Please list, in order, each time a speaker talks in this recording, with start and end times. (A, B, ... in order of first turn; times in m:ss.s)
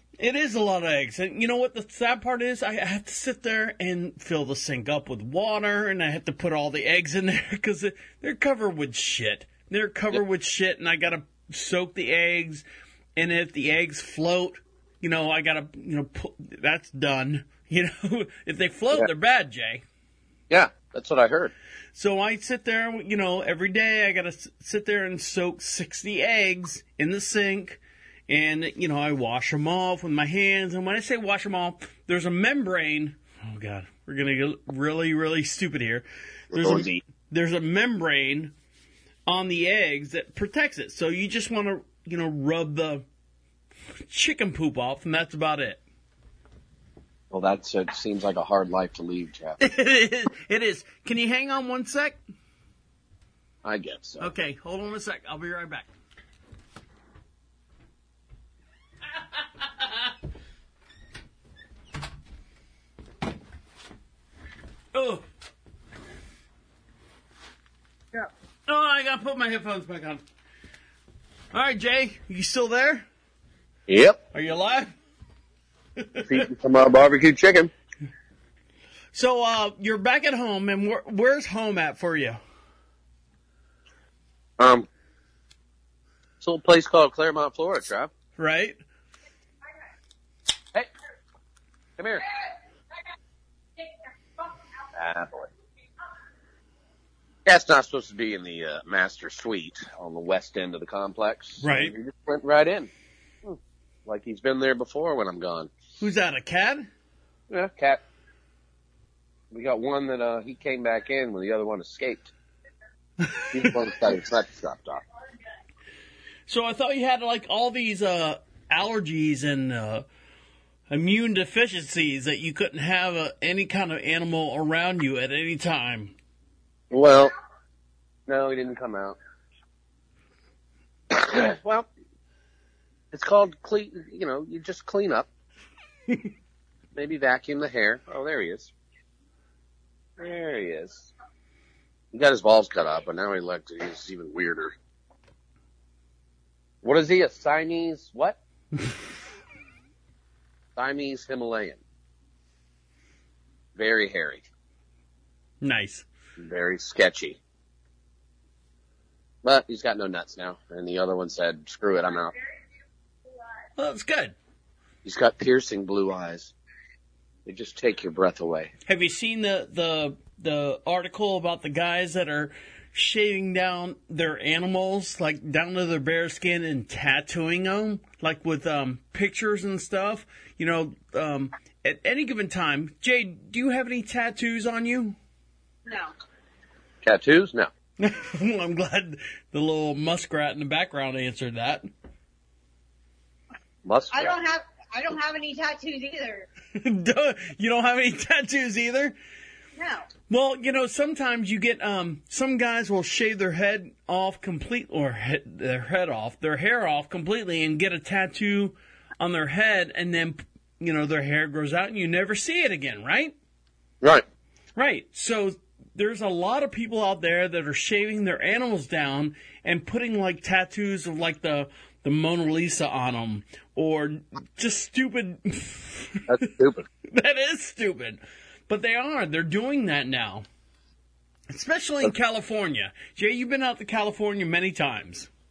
0:00.2-0:12.6 A
0:13.2-0:19.8 A
0:20.5-0:21.5 B
0:21.9-0:38.5 A
0:36.5-0:37.0 B
0:39.3-0:43.0 A
0:44.1-0:45.8 A
0:47.3-0:49.6 B
0:49.6-0:52.2 A
0:53.6-0:54.3 B
0:54.2-0:55.9 A
0:59.6-1:00.1 A
1:04.9-1:05.2 A
1:08.7-1:10.2 A
1:11.5-1:13.0 A
1:13.9-1:14.2 B
1:14.3-1:14.9 A
1:16.0-1:16.4 A
1:16.2-1:17.7 B
1:19.1-1:22.4 A
1:24.6-1:24.9 B
1:26.4-1:28.1 B
1:28.4-1:28.8 A
1:32.0-1:32.3 B
1:34.9-1:35.5 B
1:37.4-1:42.9 B
1:41.6-1:41.9 A
1:43.4-1:45.7 B
1:46.0-1:46.9 A
1:47.5-1:48.0 B
1:49.5-1:52.3 B
1:53.2-1:53.8 A
1:53.5-1:55.0 B
1:56.5-2:00.0 A
2:00.9-2:06.1 A
2:06.9-2:07.3 B
2:08.3-2:09.2 B
2:11.1-2:11.9 B
2:13.1-2:15.3 B
2:16.9-2:18.7 B
2:20.2-2:21.1 B
2:22.1-2:24.7 B
2:26.8-2:28.4 B
2:30.8-2:31.8 B
2:33.8-2:34.4 B
2:35.6-2:36.0 A
2:36.4-2:37.4 B
2:39.4-2:42.3 B
2:43.8-2:44.3 A
2:45.0-2:46.5 B
2:47.4-2:48.7 B
2:48.9-3:05.2 A
3:05.9-3:06.1 C
3:07.0-3:07.7 B
3:08.0-3:11.9 A
3:13.8-3:14.4 B
3:14.1-3:16.5 C
3:16.7-3:19.2 A
3:19.8-3:20.1 C
3:20.3-3:33.3 A
3:34.8-3:46.3 A
3:46.3-3:46.8 B
3:47.1-3:50.4 A
3:51.5-3:55.3 A